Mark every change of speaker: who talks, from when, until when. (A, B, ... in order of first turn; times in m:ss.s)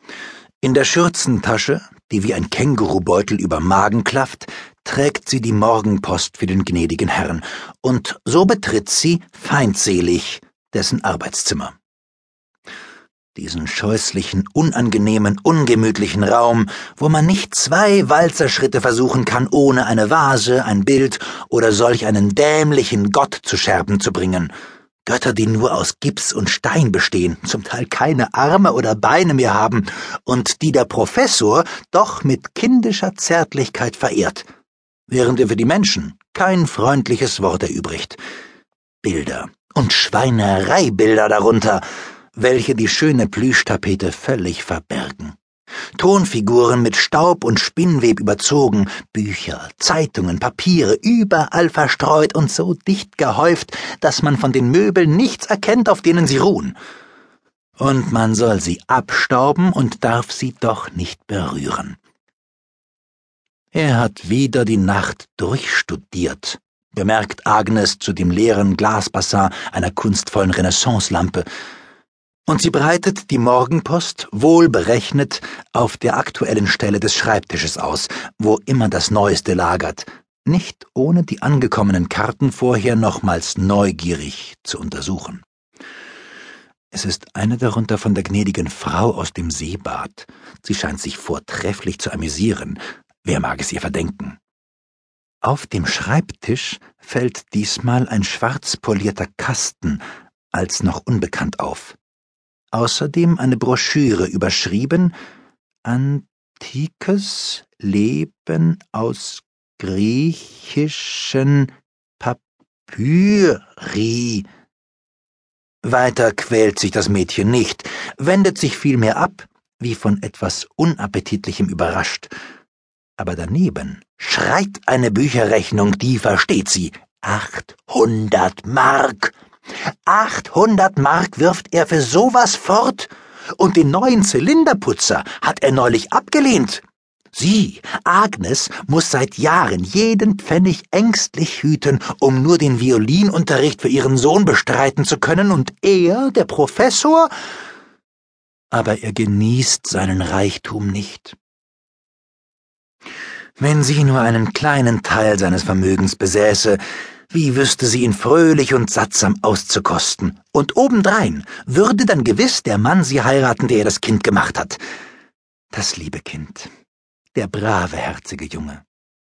0:00.6-0:11.8 A
0:13.4-0:24.5 A
0:25.0-0:34.5 A
0:35.1-0:38.2 A
0:39.0-0:41.8 A
0:42.3-0:45.4 A
0:46.0-0:56.8 A
0:57.8-1:02.0 A
1:03.7-1:11.4 A
1:12.5-1:25.4 A
1:26.9-1:34.4 A
1:35.4-1:40.0 A
1:40.5-1:42.0 A
1:42.7-1:45.1 A
1:45.8-1:54.5 A
1:55.8-2:02.3 A
2:03.2-2:09.3 A
2:10.1-2:27.3 A
2:28.7-2:31.4 A
2:33.6-2:44.8 A
2:45.7-2:46.7 A
2:47.3-2:48.8 A